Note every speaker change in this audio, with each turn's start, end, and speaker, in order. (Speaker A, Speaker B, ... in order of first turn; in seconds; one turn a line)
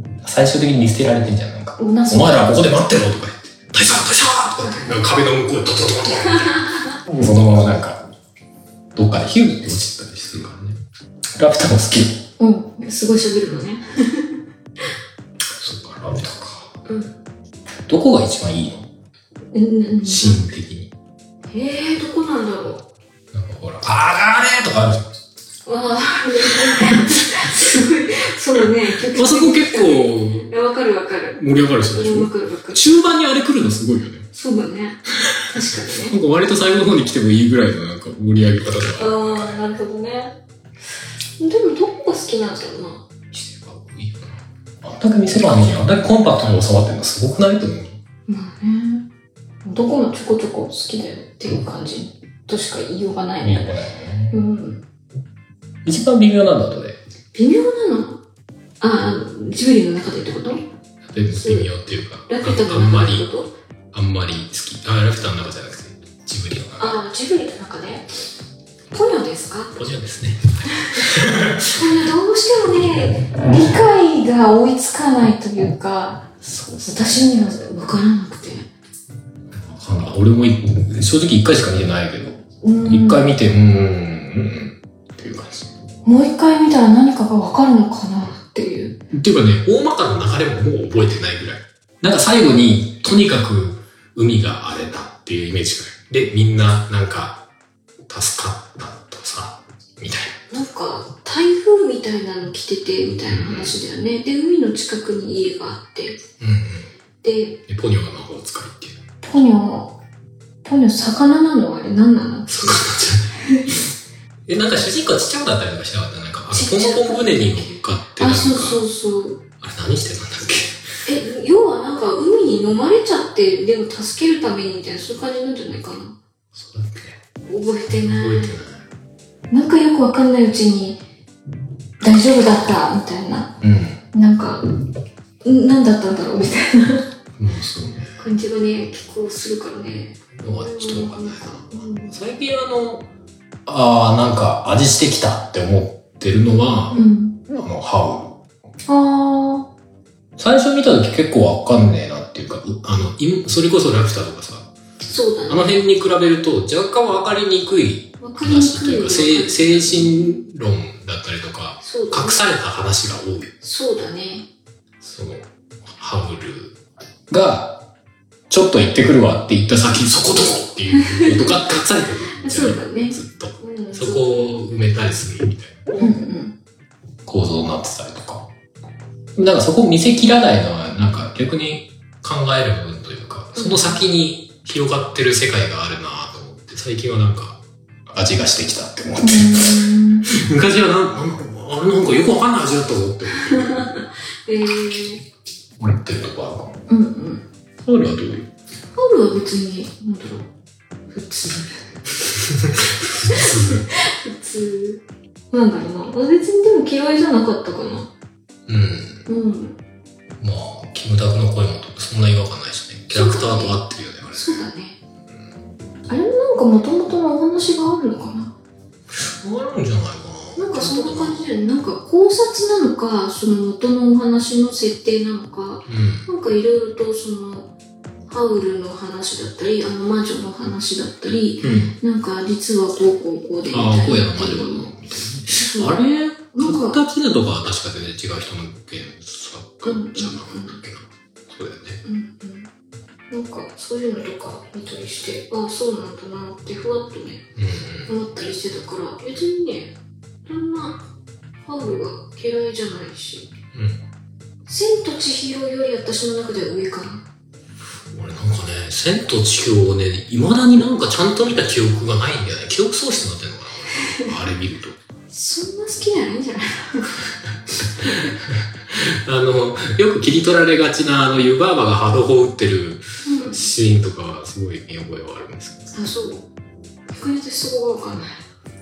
Speaker A: 0.2-8.0
Speaker B: 1.8-2.5
Speaker B: 4.6-4.9
Speaker B: 6.3-6.9
Speaker A: 8.9-10.8
Speaker A: 11.4-12.2
Speaker B: 12.4-14.4
Speaker A: 15.6-16.8
Speaker B: 16.9-17.1
Speaker A: 17.9-18.9
Speaker B: 19.5-20.4
Speaker A: 20.1-20.9
Speaker B: 21.5-22.9
Speaker A: 23.3-25.1
Speaker B: 25.6-32.8
Speaker A: 26.5-27.6
Speaker A: 28.6-30.5
Speaker A: 31.4-34.3
Speaker B: 34.3-36.2
Speaker A: 36.1-39.6
Speaker B: 39.0-40.4
Speaker B: 41.4-43.0
Speaker A: 43.3-48.0
Speaker B: 48.3-49.1
Speaker B: 49.6-53.8
Speaker A: 53.4-54.4
Speaker B: 54.3-54.8
Speaker A: 55.9-57.0
Speaker B: 57.3-58.2
Speaker B: 58.8-60.6
Speaker A: 61.1-63.3
Speaker B: 61.3-61.7
Speaker B: 62.3-63.5
Speaker A: 63.9-67.0
Speaker B: 66.8-68.1
Speaker B: 68.9-69.8
Speaker A: 69.8-71.8
Speaker B: 71.6-76.3
Speaker A: 76.4-77.2
Speaker B: 76.8-78.7
Speaker A: 79.5-85.7
Speaker B: 82.6-83.3
Speaker B: 86.0-89.0
Speaker A: 89.1-97.4
Speaker A: 98.1-100.4
Speaker B: 100.5-106.2
Speaker A: 103.3-103.8
Speaker A: 106.4-106.9
Speaker B: 107.2-107.6
Speaker A: 107.7-109.0
Speaker B: 109.2-110.0
Speaker B: 110.6-112.8
Speaker A: 112.5-113.8
Speaker B: 113.4-113.7
Speaker A: 114.5-118.8
Speaker B: 116.5-119.4
Speaker A: 119.6-120.8
Speaker B: 121.0-126.2
Speaker A: 126.5-127.2
Speaker B: 127.5-128.6
Speaker A: 127.9-128.8
Speaker B: 129.5-131.0
Speaker B: 132.0-133.6
Speaker A: 133.6-134.0
Speaker B: 134.1-134.6
Speaker B: 135.4-137.1
Speaker A: 137.4-138.2
Speaker B: 138.2-142.1
Speaker A: 140.4-143.1
Speaker A: 143.7-148.4
Speaker B: 146.9-147.4
Speaker B: 148.9-149.7
Speaker A: 150.4-154.7
Speaker B: 155.0-155.8
Speaker A: 155.5-163.5
Speaker B: 158.2-160.4
Speaker B: 161.8-162.4
Speaker B: 163.6-164.5
Speaker A: 165.0-166.8
Speaker A: 167.3-167.9
Speaker A: 168.5-175.8
Speaker B: 171.0-171.6
Speaker B: 172.4-174.4
Speaker B: 176.0-176.5
Speaker A: 177.3-178.5
Speaker A: 179.4-193.9
Speaker B: 183.6-184.0
Speaker B: 189.2-190.3
Speaker B: 193.4-195.2
Speaker A: 195.8-196.8
Speaker B: 196.9-197.4
Speaker A: 197.8-198.5
Speaker B: 198.9-200.5
Speaker B: 201.1-201.9
Speaker A: 202.4-203.9
Speaker B: 203.1-208.1
Speaker A: 208.7-209.2
Speaker B: 209.3-209.8
Speaker A: 210.4-214.6
Speaker B: 213.1-215.0
Speaker B: 216.1-218.6
Speaker A: 219.1-221.4
Speaker B: 220.6-227.7
Speaker A: 225.9-226.3
Speaker B: 228.3-234.9
Speaker A: 231.6-231.9
Speaker A: 233.7-242.0
Speaker B: 235.5-236.0
Speaker B: 236.5-237.0
Speaker B: 239.8-240.8
Speaker B: 242.0-242.7
Speaker B: 243.3-247.4
Speaker A: 247.6-248.2
Speaker B: 248.1-251.1
Speaker B: 251.6-253.5
Speaker A: 253.7-254.0
Speaker B: 254.7-257.3
Speaker A: 258.1-265.0
Speaker B: 265.3-267.2
Speaker A: 268.0-275.9
Speaker B: 273.2-273.6
Speaker B: 275.9-276.5
Speaker B: 277.1-278.4